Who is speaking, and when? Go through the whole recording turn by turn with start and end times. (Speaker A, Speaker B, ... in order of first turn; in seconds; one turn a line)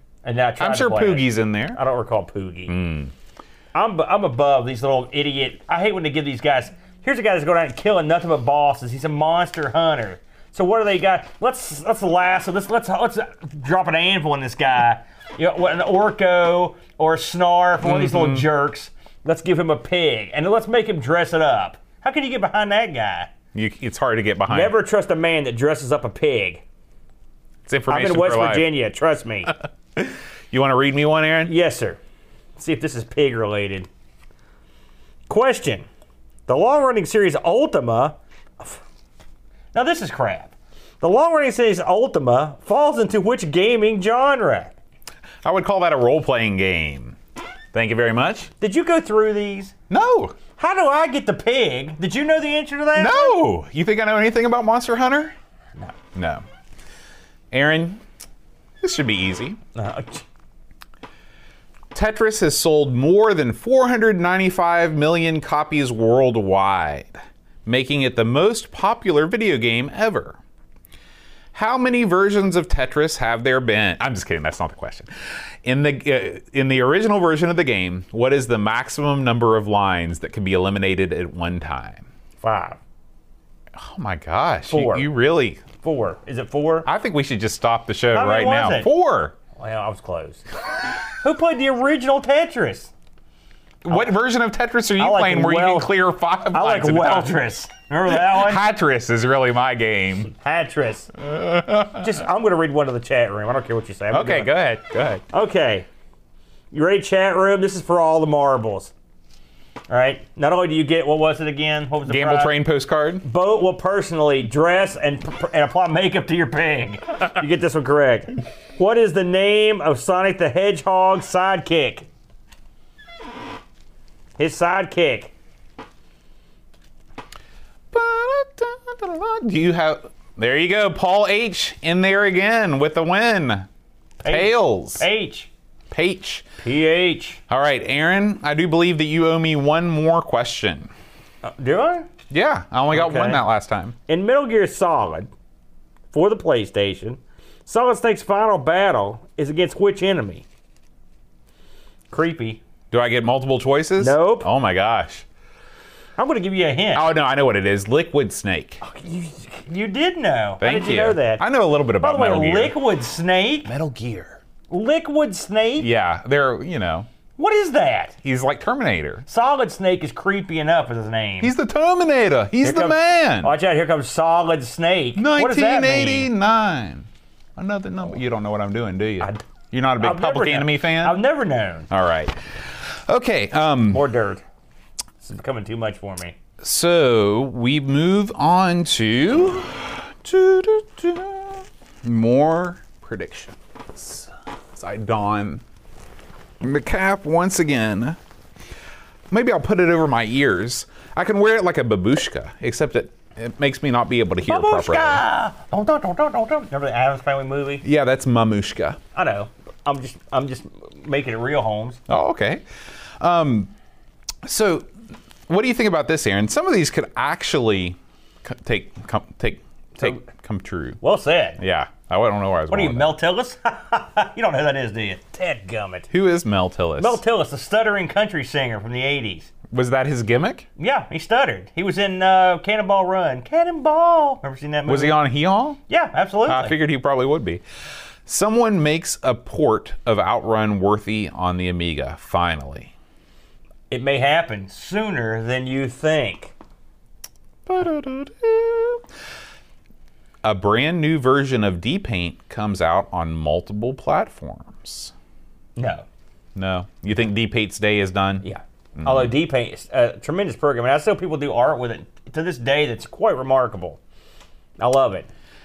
Speaker A: 0.2-2.8
Speaker B: 0.6-1.8
Speaker B: 2.7-3.1
Speaker A: 3.7-23.3
Speaker B: 17.8-18.5
Speaker B: 23.5-24.7
Speaker A: 24.5-26.6
Speaker B: 27.7-28.7
Speaker A: 27.9-29.5
Speaker B: 30.0-31.5
Speaker A: 31.5-32.0
Speaker A: 32.6-33.9
Speaker A: 35.3-35.9
Speaker A: 36.5-38.8
Speaker A: 39.7-44.8
Speaker B: 45.4-47.2
Speaker B: 47.7-48.5
Speaker A: 48.6-49.7
Speaker B: 49.9-50.4
Speaker A: 50.6-53.4
Speaker B: 53.0-55.3
Speaker B: 56.1-56.4
Speaker B: 57.5-58.0
Speaker B: 58.8-59.6
Speaker A: 59.8-60.2
Speaker B: 61.9-67.1
Speaker B: 67.7-70.4
Speaker B: 71.5-75.1
Speaker B: 75.6-82.0
Speaker A: 82.4-82.8
Speaker B: 83.8-85.6
Speaker A: 84.7-85.1
Speaker A: 85.8-86.9
Speaker B: 86.8-89.3
Speaker A: 88.1-88.9
Speaker A: 89.6-90.5
Speaker A: 91.2-92.9
Speaker B: 93.8-97.3
Speaker A: 95.0-95.9
Speaker A: 96.5-98.6
Speaker B: 98.1-100.3
Speaker A: 100.3-101.1
Speaker B: 101.2-102.1
Speaker A: 101.9-104.5
Speaker B: 104.1-105.2
Speaker A: 105.3-105.9
Speaker A: 106.7-108.9
Speaker A: 109.9-112.5
Speaker B: 112.1-113.2
Speaker A: 113.2-122.1
Speaker A: 124.4-125.3
Speaker B: 127.9-133.7
Speaker A: 134.2-135.5
Speaker B: 134.3-135.1
Speaker B: 135.9-136.4
Speaker A: 136.6-137.4
Speaker B: 137.5-140.9
Speaker A: 141.4-142.1
Speaker B: 142.3-143.9
Speaker A: 142.9-143.4
Speaker A: 144.1-145.3
Speaker A: 146.1-150.4
Speaker A: 152.1-152.6
Speaker B: 152.9-155.2
Speaker A: 154.0-154.5
Speaker A: 156.2-157.1
Speaker B: 156.9-158.8
Speaker A: 158.8-161.4
Speaker B: 160.6-162.8
Speaker A: 162.0-163.7
Speaker B: 163.7-164.4
Speaker A: 164.7-165.9
Speaker B: 165.8-167.1
Speaker A: 167.4-168.2
Speaker B: 168.2-169.2
Speaker A: 169.3-171.5
Speaker B: 171.4-173.5
Speaker A: 172.6-176.3
Speaker B: 175.2-181.2
Speaker A: 180.0-181.9
Speaker B: 181.9-184.0
Speaker A: 183.9-184.4
Speaker A: 185.2-186.4
Speaker B: 186.6-195.6
Speaker B: 196.6-198.2
Speaker B: 199.3-205.2
Speaker A: 204.4-207.8
Speaker B: 207.8-209.0
Speaker A: 209.2-212.0
Speaker B: 212.1-212.6
Speaker B: 213.2-213.7
Speaker B: 214.4-214.9
Speaker B: 215.5-221.0
Speaker A: 221.0-221.6
Speaker B: 221.6-223.2
Speaker A: 222.7-226.1
Speaker B: 226.1-227.2
Speaker A: 227.0-229.5
Speaker B: 229.7-230.7
Speaker A: 230.8-235.2
Speaker B: 234.9-235.8
Speaker A: 235.9-236.8
Speaker B: 236.5-237.6
Speaker B: 238.3-242.9
Speaker A: 243.9-246.5
Speaker B: 247.7-249.0
Speaker B: 250.4-255.1
Speaker A: 255.8-256.1
Speaker B: 256.6-258.4
Speaker A: 258.4-264.0
Speaker B: 259.0-259.3
Speaker A: 264.8-265.3